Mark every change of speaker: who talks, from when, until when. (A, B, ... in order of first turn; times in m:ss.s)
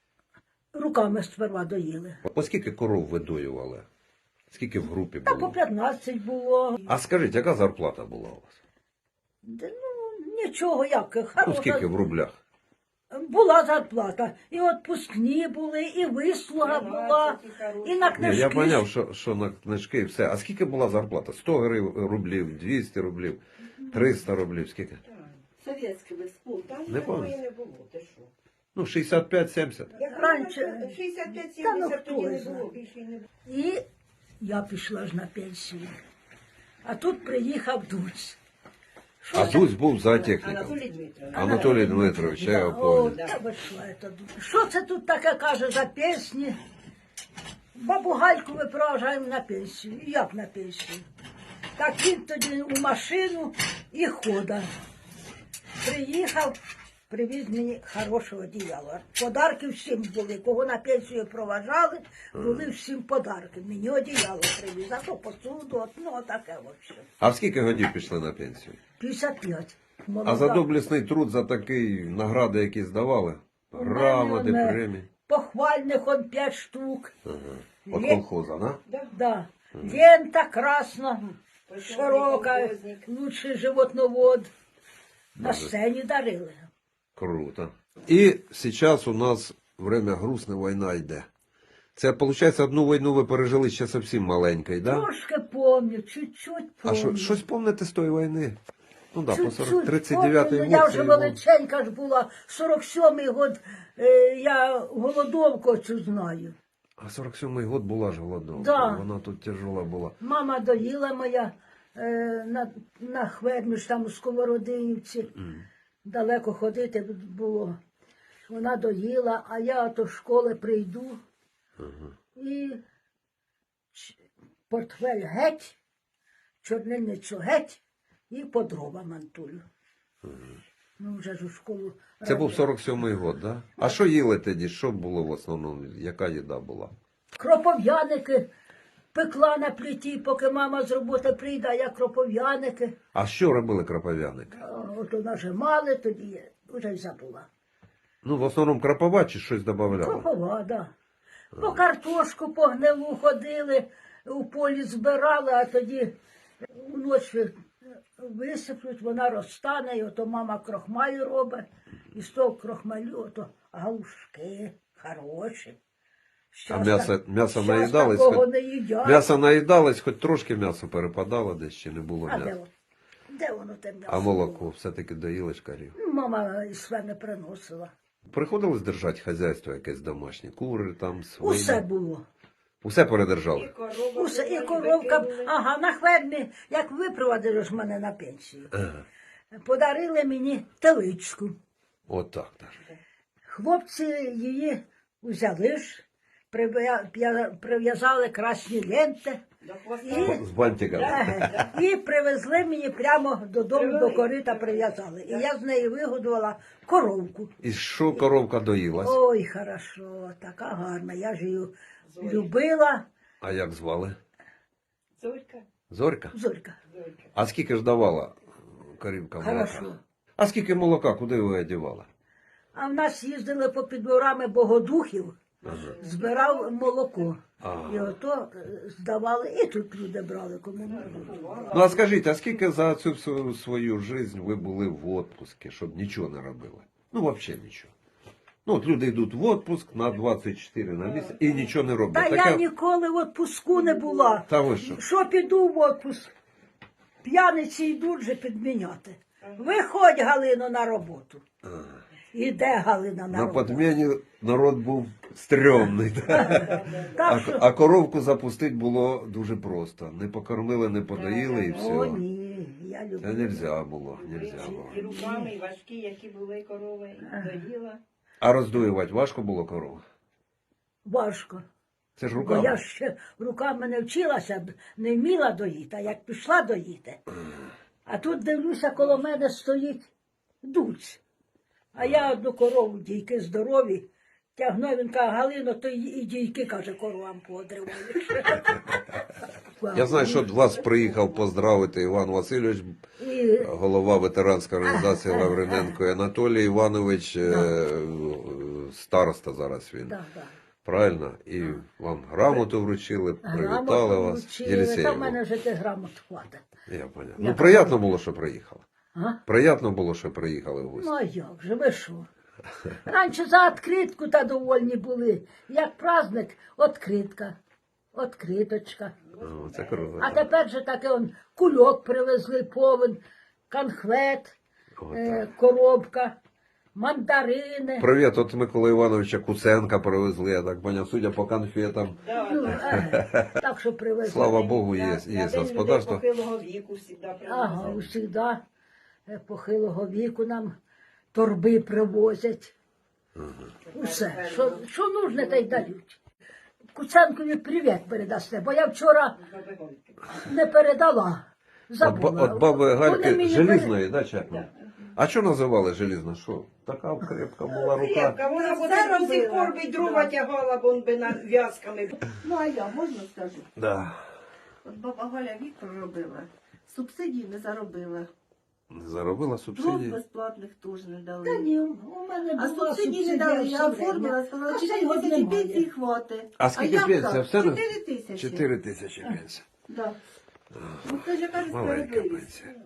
0:00.7-0:02.2 A
0:02.2-0:03.8 B
0:04.5-0:05.5 B
0:05.2-0:06.8 A
0:06.8-0:08.5 B
0:09.4-0:11.9 A
0:11.4-0:12.3 B
0:13.1-0:18.8 A
0:16.6-0:18.4 C
0:18.2-0:25.0 B
0:25.0-0:25.4 C
0:25.6-0:26.7 D
0:26.6-0:28.3 C
0:26.9-0:27.4 B
0:28.7-0:29.9 B
0:29.9-0:33.3 C
0:30.0-0:30.9 A
0:31.6-0:32.6 A
0:33.4-0:33.8 A
0:34.4-0:36.0 A
0:36.8-0:38.4 A
0:39.2-0:39.7 A
0:39.3-0:40.8 B
0:40.1-0:41.9 C
0:41.3-0:43.2 B
0:41.3-0:46.6 A
0:43.0-0:43.3 C
0:47.7-0:51.0 A
0:51.8-0:54.7 A
0:55.8-0:56.6 A
0:57.1-1:07.1 A
1:02.3-1:02.7 B
1:07.2-1:08.8 B
1:09.0-1:10.6 A
1:10.2-1:15.1 B
1:13.7-1:17.1 A
1:17.2-1:18.8 B
1:17.9-1:18.2 A
1:19.1-1:24.5 A
1:21.7-1:23.0 C
1:25.4-1:25.7 B
1:25.4-1:26.7 A
1:27.2-1:31.3 B
1:32.0-1:35.1 B
1:34.8-1:37.4 A
1:36.8-1:38.6 B
1:39.1-1:41.4 B
1:39.3-1:46.6 A
1:47.0-1:50.1 B
1:48.6-1:49.0 A
1:50.2-1:55.3 A
1:56.0-1:57.8 A
1:58.5-2:01.2 A
2:01.8-2:02.1 B
2:02.3-2:02.8 A
2:04.7-2:05.8 A
2:06.6-2:09.6 A
2:11.0-2:12.7 A
2:12.2-2:16.9 B
2:17.3-2:18.5 A
2:19.1-2:22.9 A
2:23.1-2:24.5 B
2:24.5-2:27.5 A
2:28.2-2:30.2 B
2:29.9-2:30.9 A
2:31.5-2:36.1 A
2:36.7-2:37.5 A
2:38.2-2:45.8 A
2:46.5-2:49.3 A
2:46.7-2:48.4 B
2:49.0-2:52.5 B
2:52.3-2:52.7 A
2:53.3-2:54.7 A
2:54.1-2:56.0 B
2:56.0-2:57.9 A
2:58.3-3:01.8 B
3:01.4-3:02.2 A
3:02.8-3:03.7 B
3:03.5-3:05.5 C
3:04.1-3:08.8 A
3:09.5-3:11.6 A
3:12.1-3:12.8 B
3:13.5-3:19.4 A
3:19.6-3:21.7 C
3:20.0-3:27.5 A
3:20.2-3:21.6 B
3:23.7-3:25.4 C
3:27.6-3:29.2 B
3:29.0-3:33.0 A
3:32.1-3:32.5 C
3:33.4-3:34.2 B
3:35.2-3:35.6 C
3:35.9-3:36.3 B
3:36.3-3:36.8 A
3:36.9-3:37.2 C
3:37.3-3:42.1 B
3:39.4-3:40.0 A
3:42.7-3:51.8 A
3:45.6-3:47.2 C
3:45.6-3:45.9 B
3:47.6-3:48.1 B
3:50.8-3:52.3 C
3:51.7-3:57.9 B
3:58.6-4:02.6 B
4:01.0-4:01.4 C
4:02.1-4:06.3 A
4:03.8-4:04.2 C
4:04.4-4:05.0 B
4:07.2-4:11.4 A
4:12.3-4:13.8 A
4:13.3-4:22.2 B
4:16.3-4:17.6 A
4:16.4-4:17.2 C
4:21.1-4:21.9 C
4:21.7-4:23.7 A
4:23.2-4:25.0 B
4:24.2-4:28.0 C
4:24.6-4:25.5 A
4:27.2-4:27.5 A
4:28.4-4:30.0 B
4:31.0-4:31.6 A
4:32.2-4:32.8 B
4:32.4-4:37.2 A
4:38.0-4:40.1 A
4:40.6-4:41.2 A
4:41.9-4:49.0 A
4:42.0-4:42.3 B
4:49.8-4:50.5 A
4:49.9-4:53.0 B
4:53.2-4:53.7 A
4:53.6-5:00.2 B
4:54.8-4:56.0 A
4:57.4-4:57.7 A
5:00.1-5:00.5 A
5:00.8-5:05.4 B
5:03.4-5:06.6 A
5:06.9-5:08.8 B
5:07.4-5:08.0 A
5:09.5-5:11.1 B
5:10.9-5:12.3 A
5:13.0-5:17.6 A
5:18.1-5:19.1 A
5:19.3-5:20.3 C
5:19.4-5:20.5 B
5:20.2-5:24.6 A
5:25.0-5:25.4 B
5:25.1-5:26.4 A
5:26.9-5:28.1 A
5:28.0-5:33.4 B
5:32.2-5:32.9 C
5:32.3-5:34.5 A
5:34.2-5:36.2 B
5:34.3-5:38.0 C
5:37.5-5:38.6 A
5:37.8-5:38.1 B
5:39.3-5:40.8 A
5:41.3-5:42.7 A
5:43.8-5:45.8 C
5:43.9-5:46.2 A
5:46.9-5:49.4 A
5:49.4-5:50.2 C
5:50.4-5:53.9 A
5:52.0-5:58.4 B
5:57.8-6:02.2 C
5:58.4-6:00.4 D
6:02.3-6:03.7 D
6:03.8-6:04.2 B
6:04.8-6:08.3 D
6:08.9-6:10.2 B
6:09.8-6:11.7 D
6:11.4-6:15.9 A
6:12.6-6:18.6 D
6:16.6-6:19.6 B
6:19.9-6:20.2 D
6:20.7-6:22.7 B
6:21.0-6:22.8 D